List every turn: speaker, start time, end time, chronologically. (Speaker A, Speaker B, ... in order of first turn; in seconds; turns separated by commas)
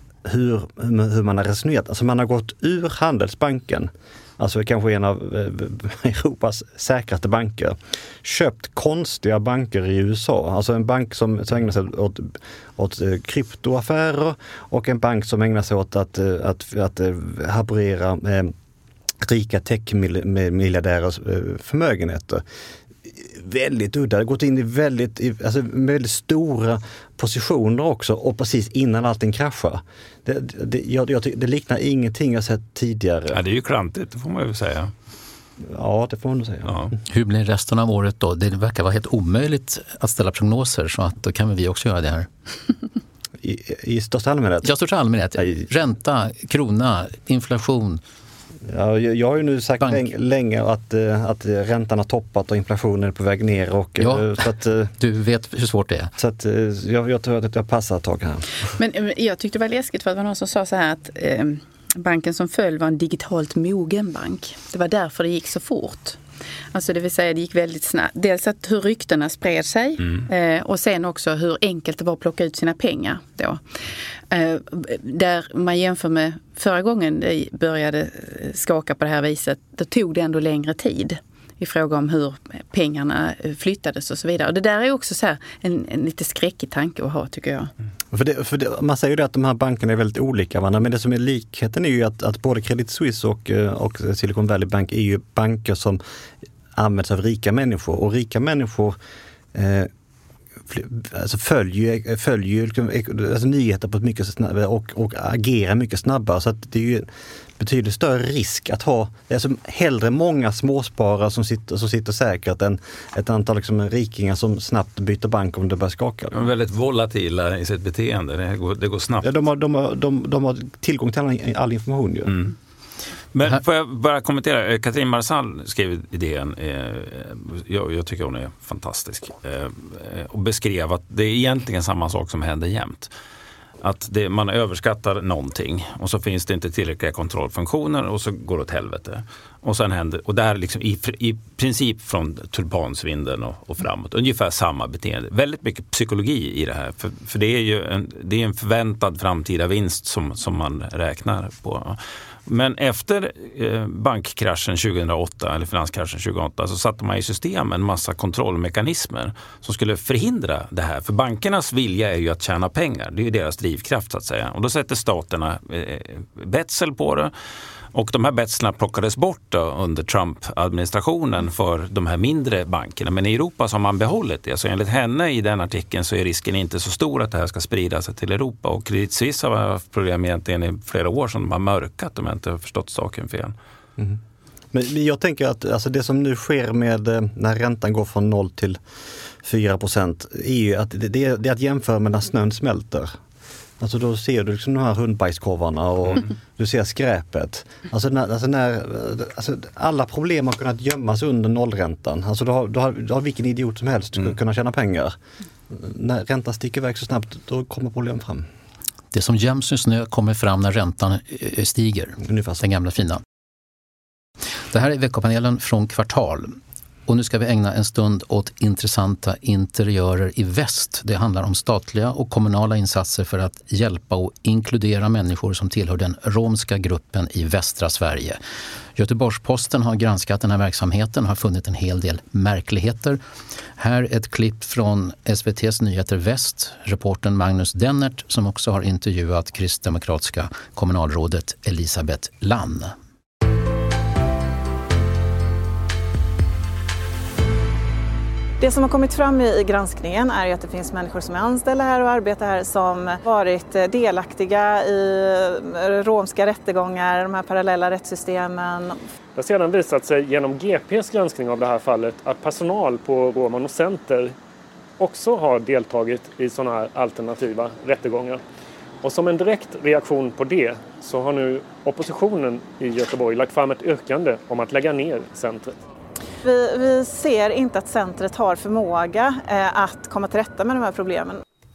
Speaker A: 0.2-18.5, Speaker A: 19.2-22.4, Speaker A: 23.1-33.4, Speaker B: 33.3-34.9, Speaker A: 35.7-36.8, Speaker C: 37.1-42.3, Speaker A: 43.4-44.7, Speaker C: 44.6-48.0, Speaker A: 45.4-45.6, Speaker A: 48.7-54.9, Speaker C: 49.8-50.1, Speaker C: 54.0-54.3, Speaker C: 55.0-56.1, Speaker A: 56.2-58.5, Speaker D: 58.8-66.2, Speaker D: 66.7-73.6, Speaker D: 74.3-87.7, Speaker A: 88.1-96.0, Speaker A: 96.7-99.0, Speaker A: 99.5-99.9, Speaker A: 100.7-107.1, Speaker A: 107.6-116.4, Speaker B: 116.3-119.2, Speaker A: 119.2-122.3, Speaker B: 122.3-122.5, Speaker B: 123.3-133.1, Speaker B: 133.8-167.3, Speaker B: 167.9-183.5, Speaker A: 184.7-188.8, Speaker A: 189.4-193.1, Speaker A: 193.8-205.2, Speaker A: 205.7-208.5, Speaker C: 209.1-213.2, Speaker A: 212.2-212.6, Speaker C: 214.7-228.4, Speaker C: 228.9-233.2, Speaker C: 233.8-242.9, Speaker E: 248.6-259.0, Speaker F: 259.3-264.3, Speaker F: 265.0-268.4, Speaker F: 269.0-275.8, Speaker E: 276.4-281.4